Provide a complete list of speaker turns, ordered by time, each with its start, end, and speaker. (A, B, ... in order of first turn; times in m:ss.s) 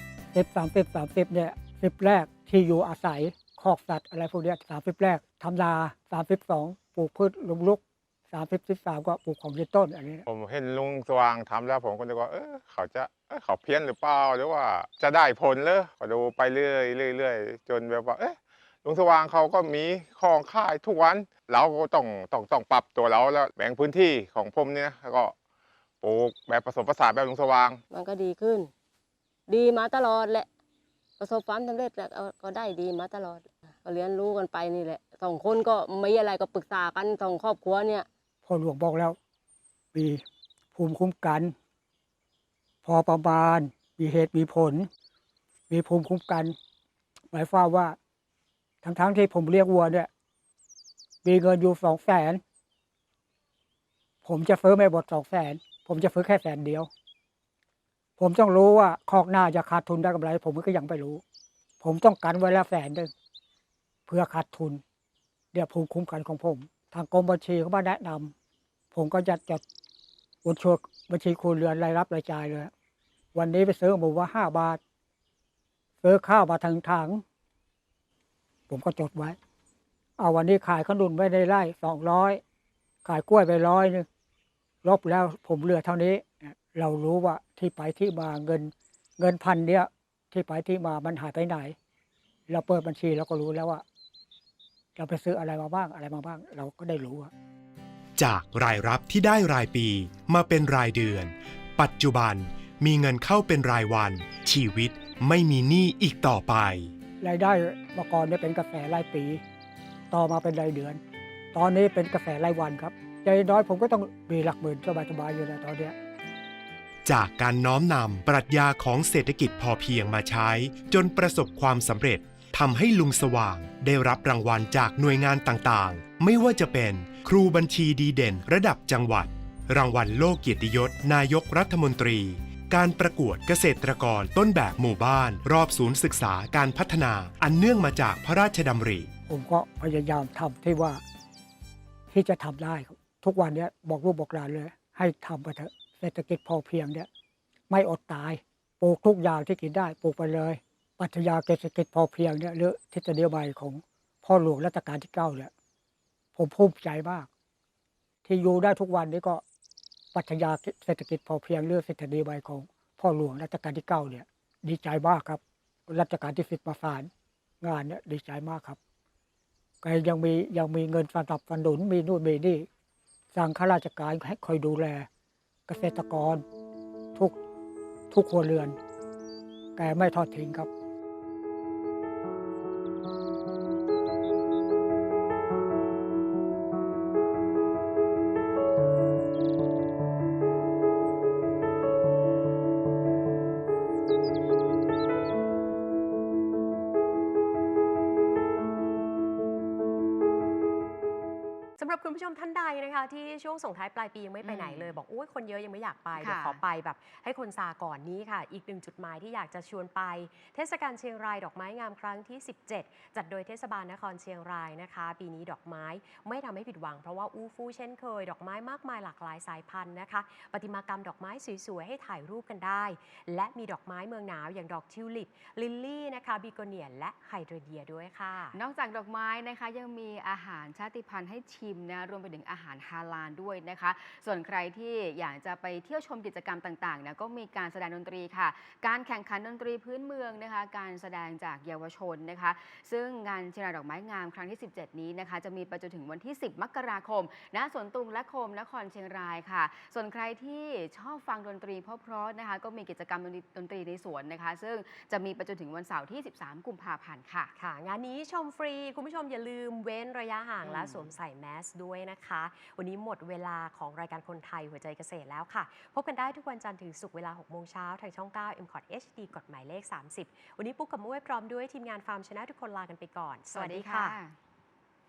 0:00.3-0:10.2 A
0:10.2-0:25.3 B
0:26.0-0:27.8 B
0:27.9-0:28.7 C
0:29.5-0:30.5 C
0:31.2-0:38.1 C
0:38.4-0:39.2 A
0:39.9-0:40.2 A
0:40.7-0:41.5 A
0:42.8-0:44.9 A
0:45.7-0:46.5 A
0:47.3-0:48.0 A
0:48.8-0:50.1 A
0:51.2-0:52.4 A
0:54.2-0:56.9 A
0:58.2-1:01.2 A
1:01.8-1:03.1 A
1:04.1-1:04.8 A
1:05.5-1:08.3 A
1:08.9-1:09.6 A
1:10.4-1:12.7 A
1:13.3-1:14.8 A
1:16.0-1:17.2 A
1:18.7-1:19.4 A
1:20.2-1:22.4 A
1:23.0-1:24.1 A
1:24.8-1:31.8 A
1:32.5-1:33.8 A
1:35.0-1:37.3 A
1:38.2-1:46.9 D
1:47.2-1:49.4 A
1:50.1-1:51.0 A
1:51.5-1:55.9 A
1:57.0-2:19.1 D
2:19.3-2:21.0 A
2:22.1-2:27.1 A
2:27.7-2:35.5 A
2:36.3-2:37.3 A
2:38.2-2:39.4 A
2:40.1-2:47.1 A
2:47.6-2:48.8 A
2:49.8-2:52.7 A
2:53.3-2:55.1 A
2:55.7-2:56.4 A
2:58.1-2:58.8 A
2:59.8-3:00.7 A
3:21.8-3:48.6 E
3:24.4-3:25.0 F
3:26.2-3:26.6 F
3:48.5-4:17.5 F
4:17.5-4:34.2 E
4:20.6-4:21.1 F
4:33.5-4:34.4 F